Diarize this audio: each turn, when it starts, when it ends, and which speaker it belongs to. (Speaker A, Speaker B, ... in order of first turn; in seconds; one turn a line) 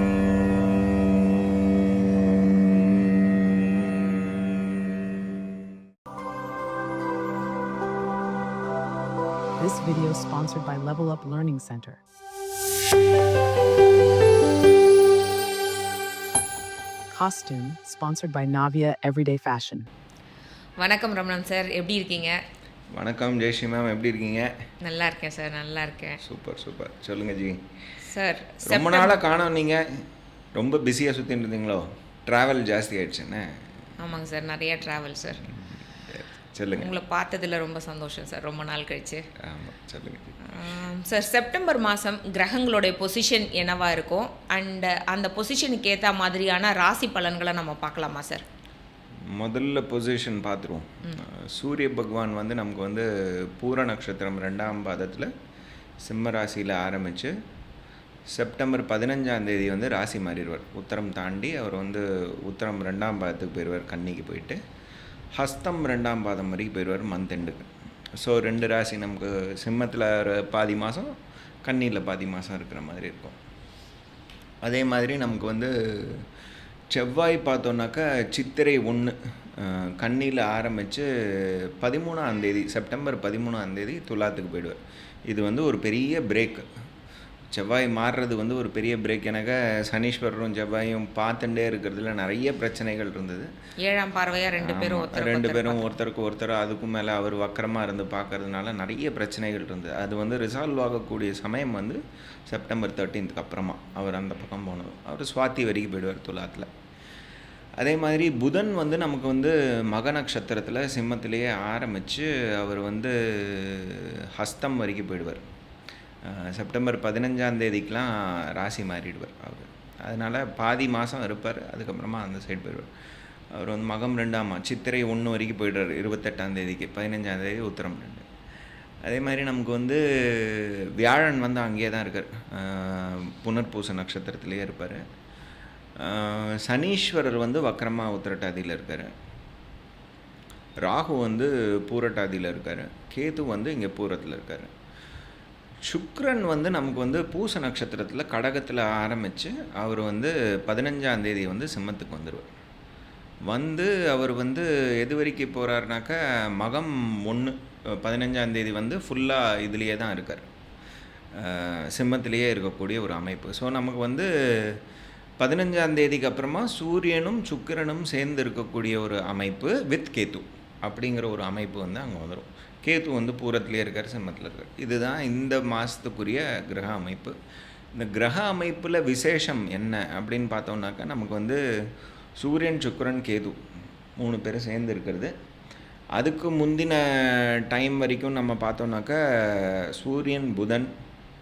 Speaker A: 9.6-12.0
Speaker A: 17.1-19.9
Speaker B: 20.8-22.4
Speaker C: 22.9-24.5
Speaker B: 24.8-26.2
Speaker C: 26.2-27.6
Speaker B: 28.0-29.2
Speaker C: 28.6-29.8
Speaker C: 30.6-33.5
Speaker B: 34.0-35.4
Speaker C: 35.5-36.9
Speaker B: 36.7-39.2
Speaker C: 39.4-40.4
Speaker B: 40.5-48.4
Speaker C: 49.3-55.3
Speaker C: 56.0-57.3
Speaker C: 58.3-64.6
Speaker C: 65.4-71.1
Speaker C: 71.6-73.3
Speaker C: 74.6-76.2
Speaker C: 76.9-84.8
Speaker C: 85.3-86.7
Speaker C: 87.5-93.5
Speaker B: 93.8-95.9
Speaker C: 94.6-102.0
Speaker C: 102.5-106.7
Speaker C: 107.8-115.4
Speaker C: 116.3-122.9
Speaker C: 123.5-128.3
Speaker C: 129.1-135.0
Speaker C: 136.0-139.1
Speaker C: 140.8-144.7
Speaker C: 145.9-152.5
Speaker C: 153.5-160.5
Speaker C: 161.3-164.8
Speaker C: 165.4-177.3
Speaker C: 177.9-181.6
Speaker C: 182.4-183.6
Speaker C: 184.2-185.3
Speaker C: 186.2-190.9